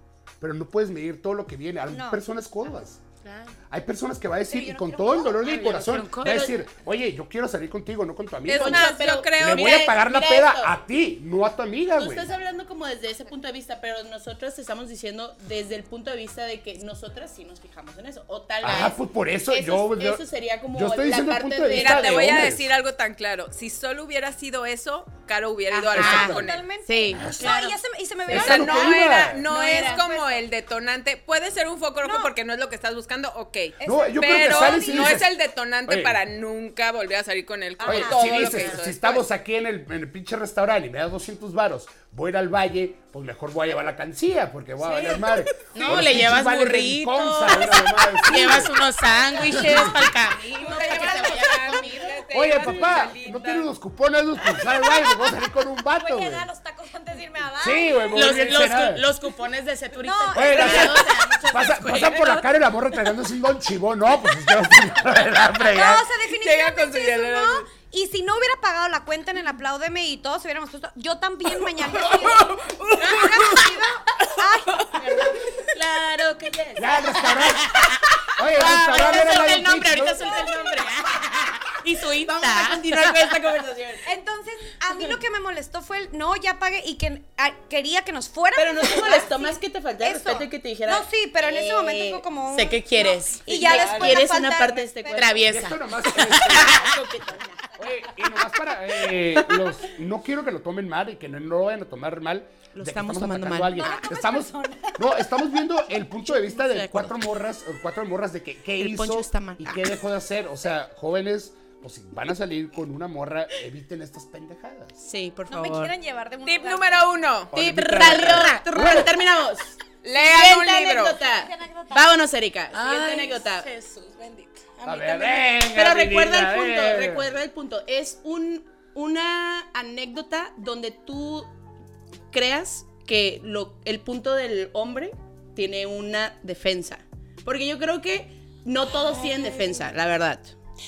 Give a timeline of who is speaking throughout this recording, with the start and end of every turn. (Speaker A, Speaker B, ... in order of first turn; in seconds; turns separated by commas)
Speaker A: 0.4-3.0, Speaker B: 1.9-2.2, Speaker C: 3.2-3.5, Speaker A: 3.7-12.3, Speaker B: 4.5-5.4, Speaker C: 5.4-6.5, Speaker D: 6.2-6.5, Speaker E: 8.5-9.9, Speaker D: 8.5-10.7, Speaker D: 11.9-22.5, Speaker A: 18.6-20.2, Speaker A: 20.7-22.7, Speaker E: 21.7-26.6, Speaker C: 25.9-26.4, Speaker B: 25.9-30.4, Speaker A: 25.9-26.4, Speaker D: 26.9-27.3, Speaker A: 27.2-27.6, Speaker A: 28.3-29.4, Speaker E: 28.3-39.2, Speaker B: 32.0-32.3, Speaker B: 33.8-35.2, Speaker A: 33.8-35.3, Speaker A: 35.9-36.2, Speaker B: 37.8-38.3, Speaker A: 37.8-48.8, Speaker C: 37.9-38.9, Speaker E: 45.0-45.9, Speaker C: 45.7-52.9, Speaker A: 49.4-50.1, Speaker E: 50.5-53.7, Speaker B: 50.8-51.5, Speaker A: 52.3-56.5, Speaker B: 54.6-55.3, Speaker B: 55.9-58.2, Speaker A: 57.6-59.0, Speaker C: 58.1-62.4, Speaker B: 60.0-61.2, Speaker A: 60.3-66.0, Speaker B: 65.6-75.0, Speaker E: 66.3-67.7, Speaker D: 72.2-72.8, Speaker C: 75.0-83.3, Speaker A: 76.8-77.8, Speaker A: 78.4-80.4, Speaker D: 82.2-84.1, Speaker B: 84.0-95.5, Speaker D: 88.6-92.2, Speaker C: 92.5-94.1, Speaker D: 93.5-95.5, Speaker E: 93.7-94.2, Speaker C: 95.1-97.7, Speaker A: 95.4-97.1, Speaker A: 97.8-115.0, Speaker D: 102.7-103.9, Speaker B: 103.7-105.0, Speaker D: 106.2-107.2, Speaker D: 108.8-110.0, Speaker D: 115.0-115.9, Speaker B: 115.5-117.1, Speaker E: 116.4-117.5, Speaker A: 117.5-119.1, Speaker D: 117.5-123.7, Speaker C: 117.5-119.1, Speaker E: 120.0-121.2, Speaker B: 121.4-122.2, Speaker C: 122.7-125.6, Speaker A: 124.8-127.3, Speaker D: 125.7-131.5, Speaker D: 132.3-140.6